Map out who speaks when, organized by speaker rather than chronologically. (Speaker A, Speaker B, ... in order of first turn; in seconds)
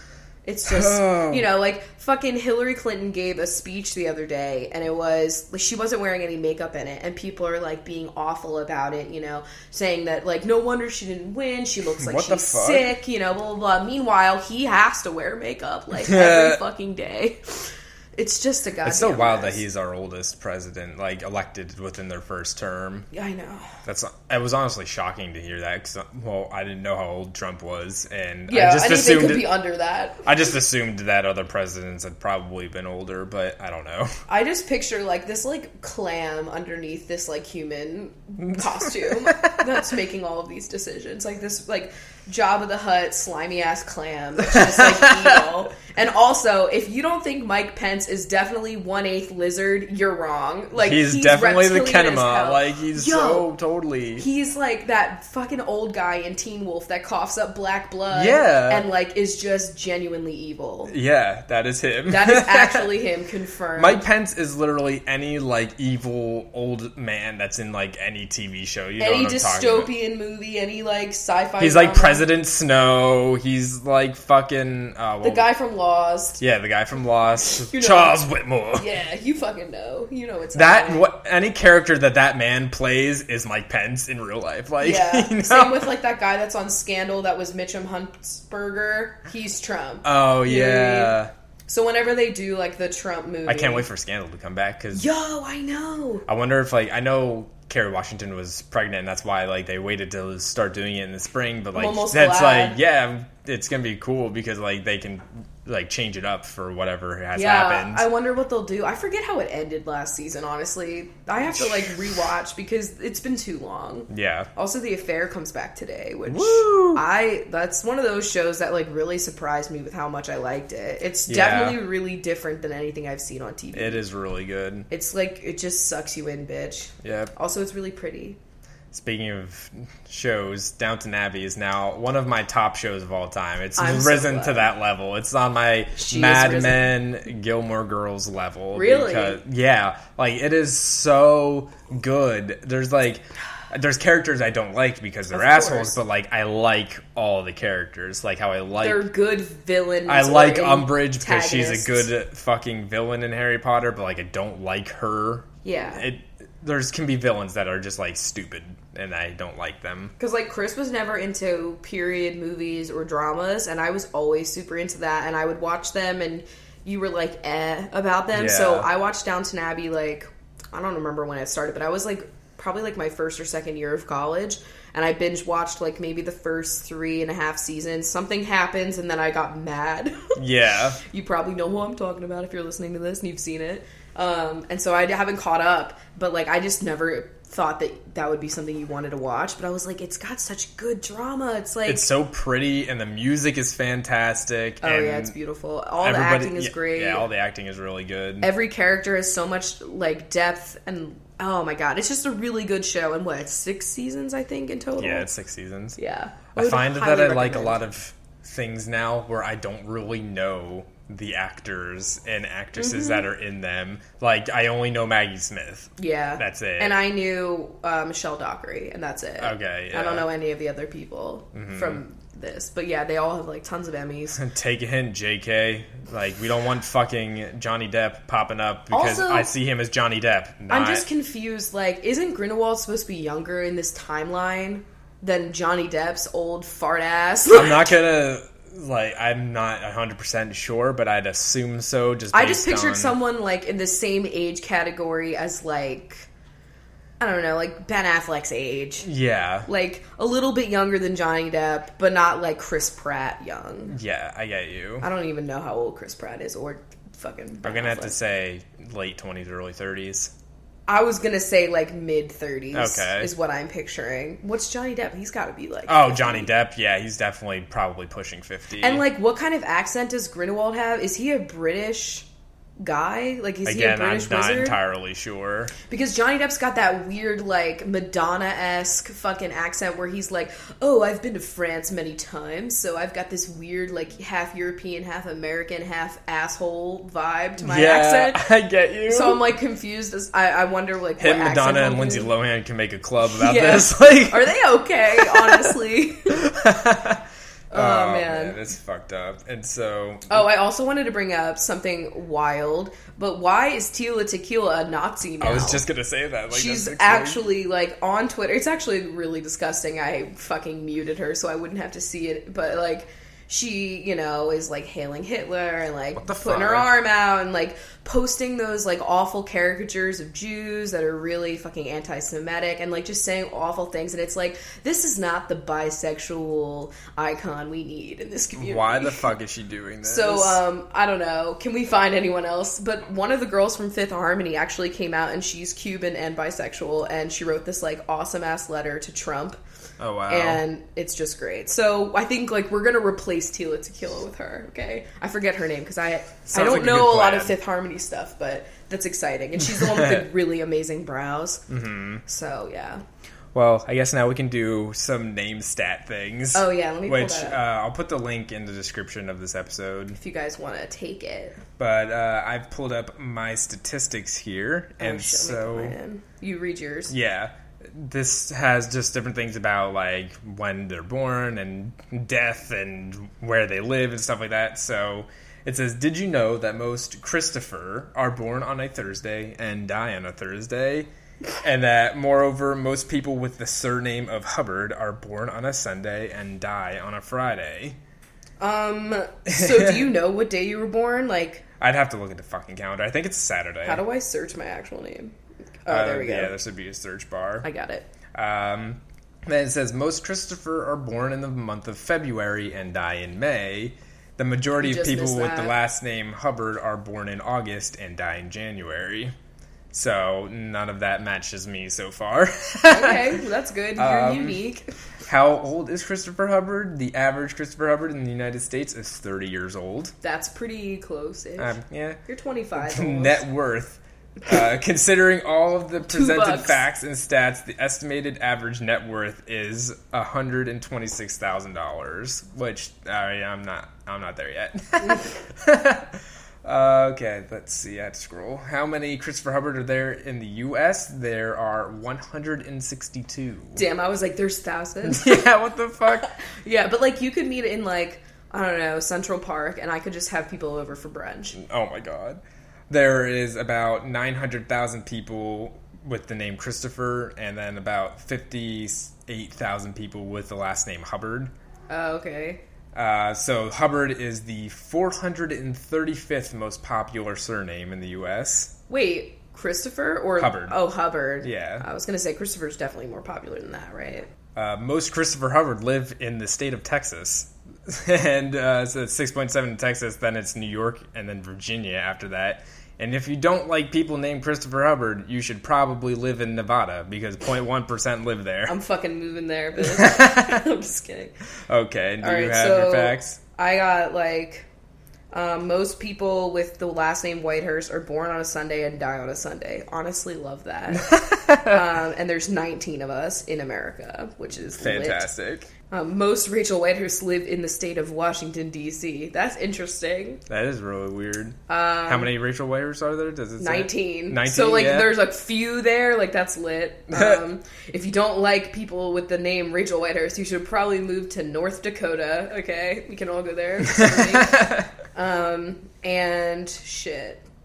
Speaker A: 0.5-19.6, 23.1-23.8, 28.5-30.2, 34.3-53.5, 54.2-60.9, 62.1-64.0, 69.0-72.3, 75.2-76.4, 77.6-81.0, 84.8-91.2, 91.7-93.8, 94.9-96.2, 101.7-102.8, 107.3-124.0, 124.9-128.4, 133.8-134.7, 135.9-136.9, 138.7-139.4, 145.3-146.0, 148.8-152.1, 155.6-156.1, 160.2-180.3, 181.0-192.1, 194.8-197.3, 198.4-205.3, 206.0-207.8, 212.8-213.2, 216.0-224.4, 228.9-229.5, 230.7-237.8, 242.3-246.3, 247.2-249.1, 249.7-254.0, 255.0-258.1, 260.9-266.5, 268.8-272.3, 272.8-274.8, 275.9-288.5, 289.1-292.3, 293.3-296.4, 297.7-298.6, 300.3-305.8, 306.5-329.3, 330.0-339.6, 340.3-351.6, 352.2-353.0, 356.5-357.6, 360.1-361.6, 365.0-367.1, 388.6-391.6, 393.8-396.5, 397.6-398.1, 404.8-405.7, 412.9-414.8, 420.2-423.4, 426.0-426.8, 443.7-445.5, 446.2-451.6, 461.9-462.6, 468.9-474.3, 488.7-491.3, 492.2-494.7, 495.3-505.3, 505.9-510.4, 511.7-512.3, 513.6-527.4
Speaker B: 0.7-1.5, 12.0-12.9, 16.0-16.6, 18.8-23.1, 23.8-29.5, 30.2-34.1, 38.5-39.7, 44.4-45.4, 50.8-54.2, 58.1-58.9, 60.9-62.9, 63.8-69.9, 71.6-75.5, 76.4-78.9, 80.5-85.9, 90.0-91.3, 93.5-95.1, 96.3-108.1, 114.1-114.5, 116.3-117.0, 121.3-121.8, 123.7-124.9, 127.0-127.3, 128.9-149.1, 150.1-160.1, 168.3-168.9, 180.3-181.0, 191.8-195.3, 196.0-198.5, 205.0-206.0, 206.5-217.0, 219.4-220.3, 221.5-222.0, 224.3-231.1, 237.5-243.1, 249.0-249.7, 253.9-255.1, 257.6-260.3, 262.7-263.3, 265.9-269.0, 273.6-275.7, 287.6-289.4, 291.2-294.5, 295.1-295.8, 296.3-300.5, 305.4-307.4, 316.1-317.0, 328.6-330.6, 340.0-340.6, 346.5-347.6, 349.6-350.2, 351.7-352.2, 353.5-360.2, 361.8-365.9, 367.1-381.1, 381.6-388.0, 389.5-390.1, 391.8-394.0, 395.9-397.7, 398.3-409.3, 409.9-413.4, 414.0-414.6, 415.2-420.1, 421.6-422.2, 422.8-443.8, 445.0-446.3, 451.6-461.5, 462.9-468.7, 470.4-470.8, 471.4-471.9, 474.5-488.8, 489.8-490.6, 491.7-493.4, 501.0-501.8, 504.6-505.7, 510.5-515.2, 517.1-517.4, 523.9-524.9